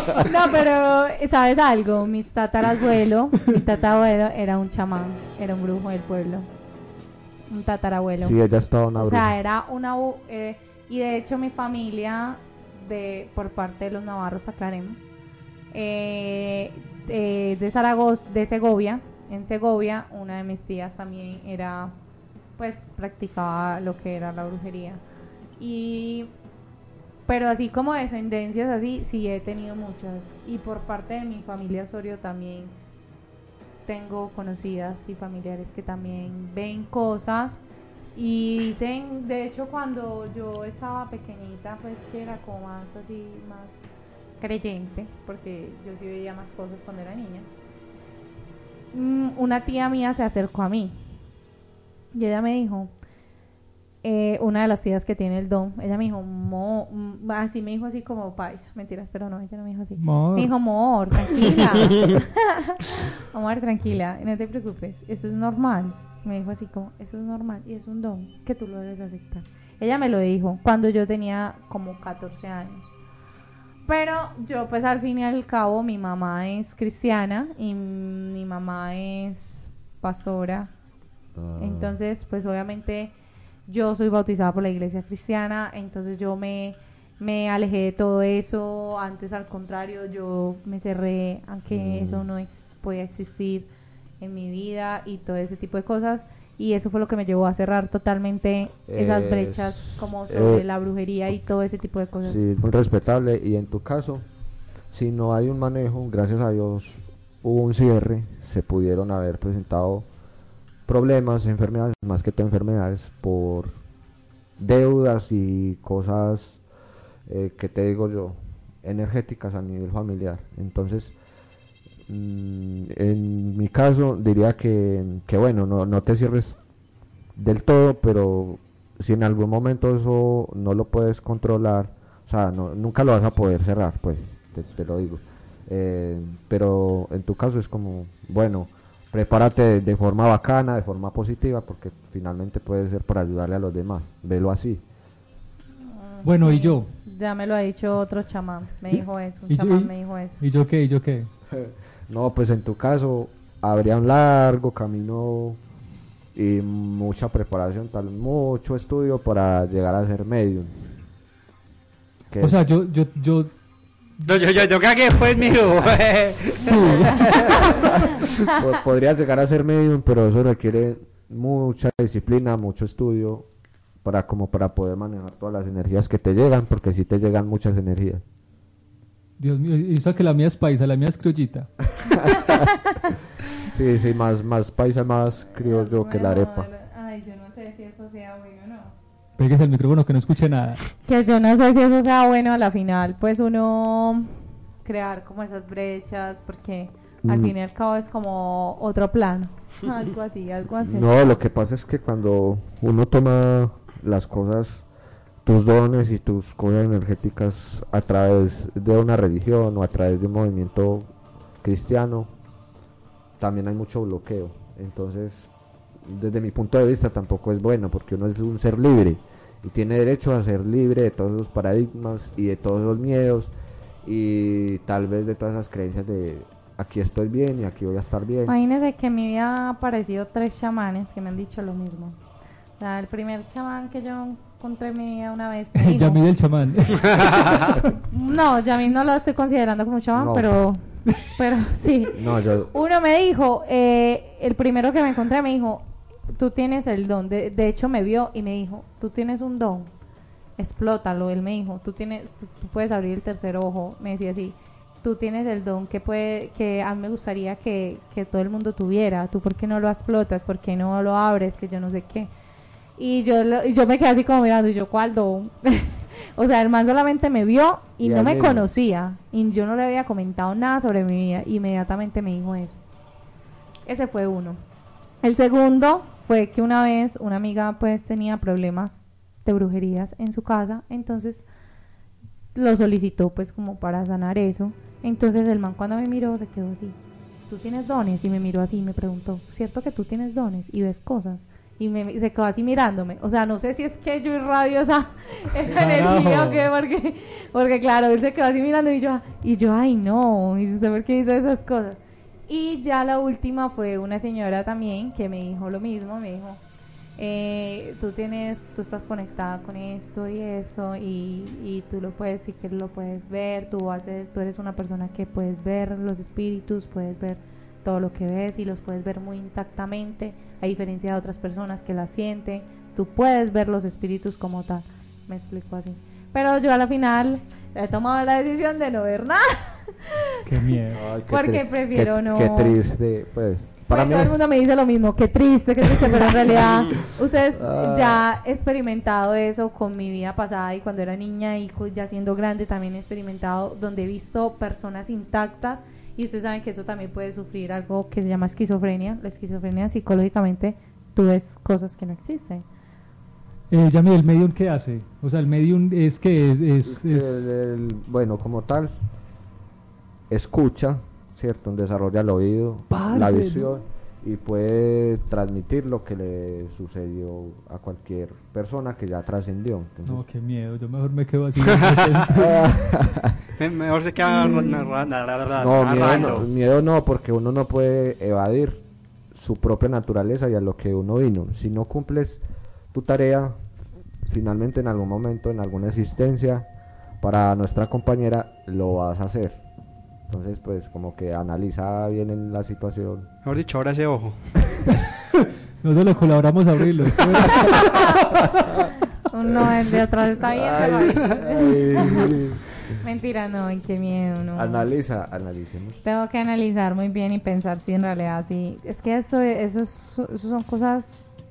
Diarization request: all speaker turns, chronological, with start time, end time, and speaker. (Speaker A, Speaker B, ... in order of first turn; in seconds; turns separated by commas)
Speaker A: 0.2-6.5, Speaker A: 7.5-8.4, Speaker B: 8.2-9.3, Speaker A: 9.0-15.1, Speaker A: 15.7-21.9, Speaker A: 22.6-25.0, Speaker A: 25.6-26.3, Speaker A: 27.3-32.7, Speaker A: 33.9-37.6, Speaker A: 38.1-43.8, Speaker A: 44.4-47.5, Speaker A: 48.9-51.0, Speaker A: 52.1-52.9, Speaker A: 54.0-72.9, Speaker C: 60.0-60.5, Speaker A: 73.9-80.7, Speaker B: 81.4-82.0, Speaker A: 81.6-83.1, Speaker A: 83.7-93.7, Speaker B: 91.7-92.3, Speaker A: 94.2-102.4, Speaker B: 98.9-100.7, Speaker B: 102.2-104.2, Speaker B: 104.9-110.1, Speaker B: 110.9-113.8, Speaker B: 114.6-116.6, Speaker B: 117.3-121.2, Speaker B: 122.1-126.6, Speaker B: 127.4-144.8, Speaker A: 145.8-150.4, Speaker C: 146.2-146.9, Speaker C: 149.5-151.3, Speaker B: 151.5-155.6, Speaker B: 156.3-160.8, Speaker B: 162.3-162.7, Speaker C: 162.4-163.5, Speaker D: 164.2-167.7, Speaker C: 166.6-167.7, Speaker B: 168.4-173.5, Speaker B: 174.0-178.2, Speaker C: 179.4-181.7, Speaker B: 183.7-186.7, Speaker A: 185.5-188.9, Speaker C: 189.4-190.8, Speaker A: 191.1-194.3, Speaker A: 194.8-201.2, Speaker B: 197.2-197.5, Speaker B: 200.8-204.8, Speaker B: 205.4-211.1, Speaker B: 211.6-212.3, Speaker B: 213.4-215.5, Speaker B: 216.0-223.5, Speaker B: 224.0-228.5, Speaker A: 228.5-232.2, Speaker A: 232.8-236.2, Speaker C: 235.8-237.9, Speaker A: 238.1-249.9, Speaker B: 240.2-240.5, Speaker B: 242.1-242.7, Speaker A: 250.6-262.3, Speaker A: 263.0-272.8, Speaker B: 268.0-268.7, Speaker A: 273.9-274.6, Speaker A: 275.2-281.4, Speaker A: 282.6-287.0, Speaker A: 287.5-306.6, Speaker C: 295.7-296.7, Speaker A: 307.2-330.8, Speaker C: 330.5-331.0, Speaker B: 330.9-334.4, Speaker A: 331.3-332.8, Speaker A: 333.9-352.6, Speaker B: 337.6-338.2, Speaker C: 353.7-357.4, Speaker B: 356.8-358.9, Speaker B: 360.3-370.2, Speaker C: 362.9-363.7, Speaker C: 370.1-372.7, Speaker D: 371.7-372.1, Speaker B: 372.4-373.4, Speaker D: 373.6-376.5, Speaker A: 374.3-375.0, Speaker B: 375.6-382.4, Speaker B: 382.9-383.6, Speaker B: 384.3-386.7, Speaker B: 387.2-389.6, Speaker B: 390.3-393.3, Speaker D: 393.4-394.6, Speaker C: 395.8-398.4, Speaker A: 397.6-398.2, Speaker A: 399.3-402.4, Speaker B: 400.4-402.6, Speaker A: 403.0-404.9, Speaker B: 404.5-406.0, Speaker A: 406.0-411.2